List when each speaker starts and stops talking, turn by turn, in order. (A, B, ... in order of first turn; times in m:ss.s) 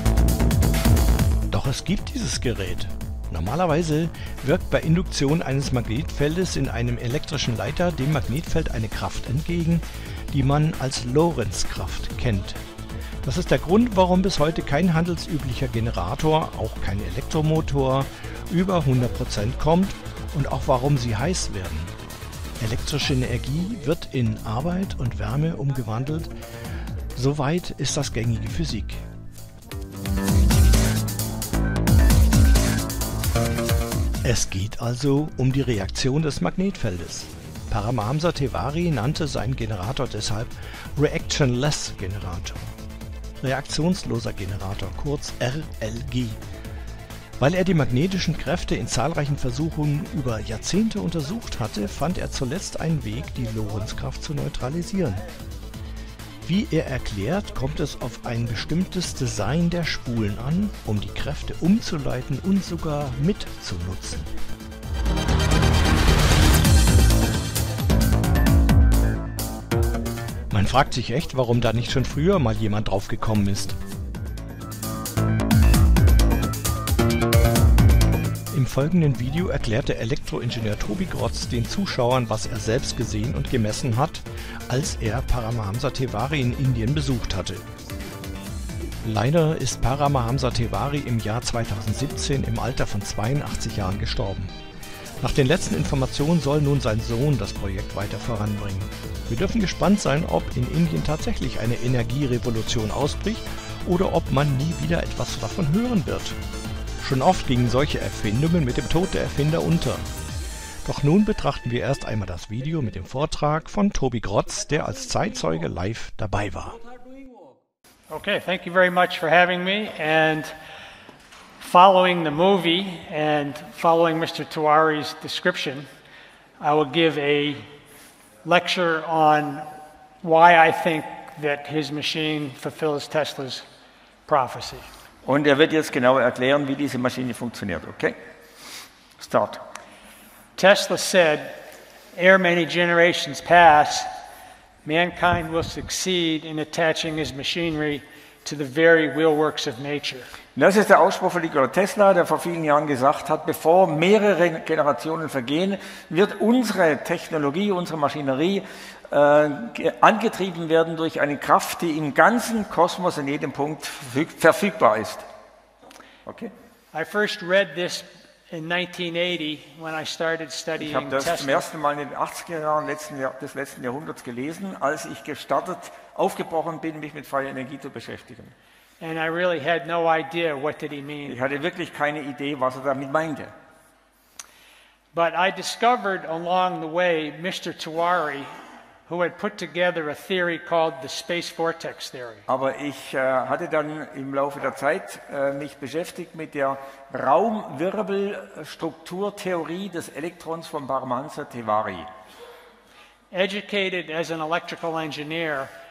0:01.5-0:12.6 A
0:13.2-0:21.9 A
0:22.6-0:26.4 A
0:27.2-0:29.0 A
0:34.2-0:42.7 A
0:43.4-0:46.4 A
0:47.4-0:55.2 A
0:56.4-1:04.3 A
1:10.5-1:13.8 A
1:18.5-1:27.6 A
1:29.0-1:34.5 A
1:35.2-1:46.4 A
1:47.0-1:50.1 A
1:50.8-1:56.8 A
1:58.1-2:00.5 B
2:01.6-2:05.9 B
2:06.6-2:07.7 B
2:08.4-2:13.6 B
2:14.3-2:14.9 B
2:15.2-2:18.2 C
2:19.2-2:19.7 C
2:20.6-2:24.1 B
2:24.8-2:30.3 B
2:30.6-2:45.3 C
2:46.3-2:46.5 C
2:46.9-2:51.6 B
2:50.8-2:58.5 C
2:59.0-3:01.4 B
3:01.2-3:03.5 C
3:05.1-3:08.5 B
3:09.1-3:12.4 B
3:12.5-3:22.1 C
3:23.3-3:25.7 B